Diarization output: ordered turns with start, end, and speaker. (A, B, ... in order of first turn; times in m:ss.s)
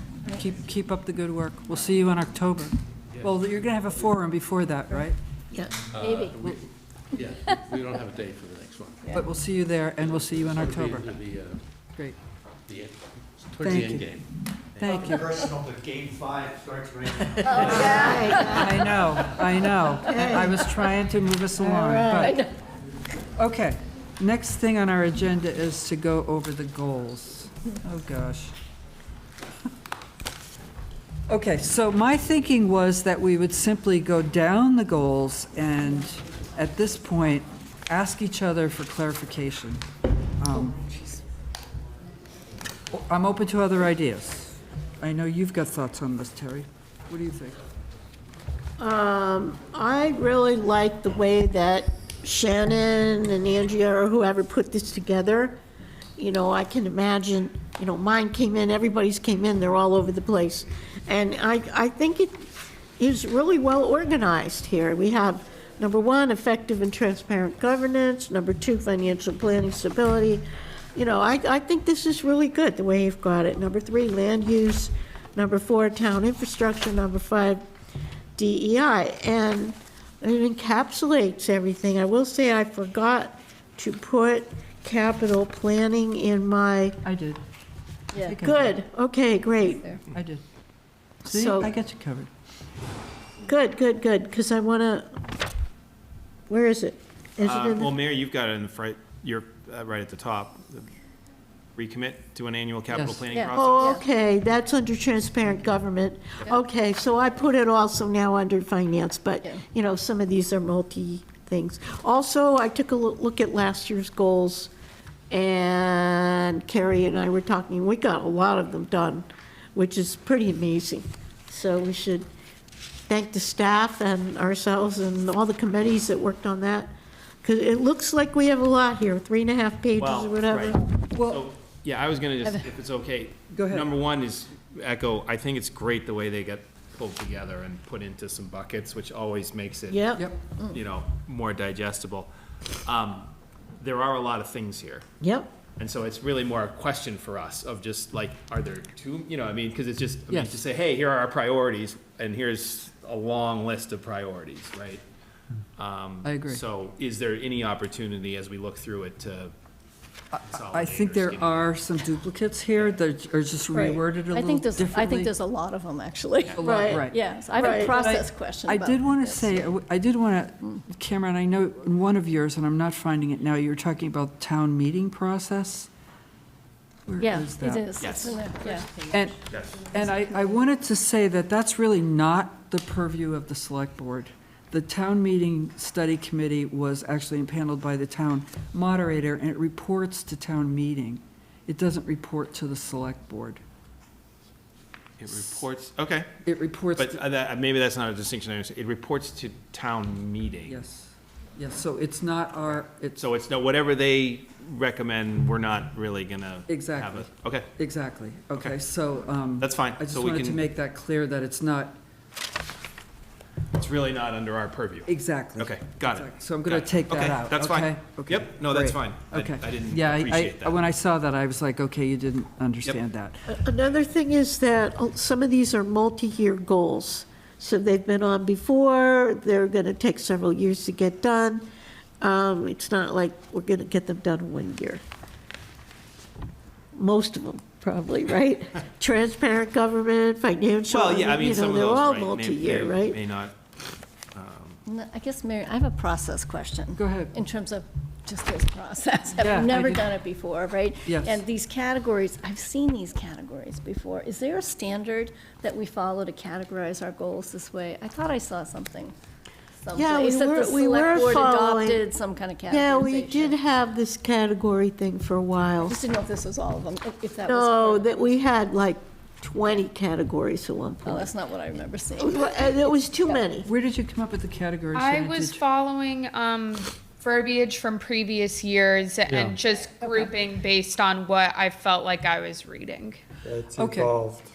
0:00.3-0:05.2 A
0:03.1-0:03.4 B
0:05.9-0:09.3 B
0:06.0-0:06.4 C
0:09.1-0:11.1 A
0:09.8-0:11.7 B
0:12.7-0:17.3 B
0:13.6-0:14.1 A
0:14.8-0:15.2 A
0:15.2-0:16.4 D
0:17.4-0:19.2 C
0:17.6-0:18.8 E
0:18.4-0:22.4 A
0:20.1-0:20.8 E
0:21.7-0:22.3 E
0:22.0-0:22.5 C
0:23.4-0:28.5 A
0:31.3-0:39.8 A
0:40.4-0:40.8 A
0:42.9-0:47.6 A
0:48.8-0:55.6 E
0:56.2-1:02.5 E
1:03.0-1:17.6 E
1:18.4-1:27.0 E
1:27.0-1:27.4 A
1:28.1-1:28.4 C
1:28.2-1:28.8 A
1:28.4-1:29.8 E
1:29.6-1:30.0 C
1:30.1-1:30.4 A
1:31.2-1:32.3 A
1:31.3-1:31.7 E
1:33.4-1:35.1 E
1:36.5-1:38.0 E
1:37.4-1:40.9 F
1:41.8-1:44.0 F
1:42.9-1:43.3 A
1:43.3-1:44.0 C
1:43.5-1:54.7 E
1:55.3-2:02.3 E
2:03.1-2:10.9 E
2:10.0-2:22.3 F
2:11.2-2:11.4 A
2:13.5-2:13.9 A
2:19.9-2:20.2 E
2:22.8-2:25.1 F
2:25.2-2:25.5 E
2:25.8-2:35.0 F
2:30.3-2:30.6 A
2:35.8-2:39.5 F
2:36.2-2:36.6 A
2:40.3-2:45.3 A
2:40.5-2:41.8 F
2:43.7-2:44.0 E
2:44.3-2:49.7 C
2:46.6-2:55.9 A
2:46.6-2:47.0 E
2:47.6-2:47.9 E
2:57.1-2:57.8 A
2:57.2-2:58.9 C
2:58.0-2:58.4 F
2:59.1-3:13.6 A
2:59.5-2:59.9 F
3:15.2-3:16.3 F
3:16.5-3:17.2 A
3:17.0-3:20.8 F
3:20.7-3:23.2 A
3:22.7-3:27.7 F
3:26.7-3:32.0 A
3:29.6-3:30.6 F
3:33.7-3:40.8 F
3:35.1-3:43.5 A
3:43.5-3:51.6 E
3:52.2-3:55.0 E
3:57.0-4:03.2 E
4:00.9-4:03.5 F
4:04.3-4:04.8 F
4:04.9-4:19.2 C
4:06.9-4:07.3 A
4:09.4-4:10.1 A
4:11.1-4:11.4 A
4:19.8-4:23.6 C
4:19.9-4:22.0 E
4:22.7-4:26.0 E
4:25.9-4:28.4 C
4:27.5-4:31.3 E
4:31.0-4:33.4 C
4:32.2-4:33.7 E
4:33.6-4:35.6 A
4:34.9-4:43.2 G
4:39.9-4:40.3 C
4:43.4-4:44.4 D
4:43.7-4:44.2 A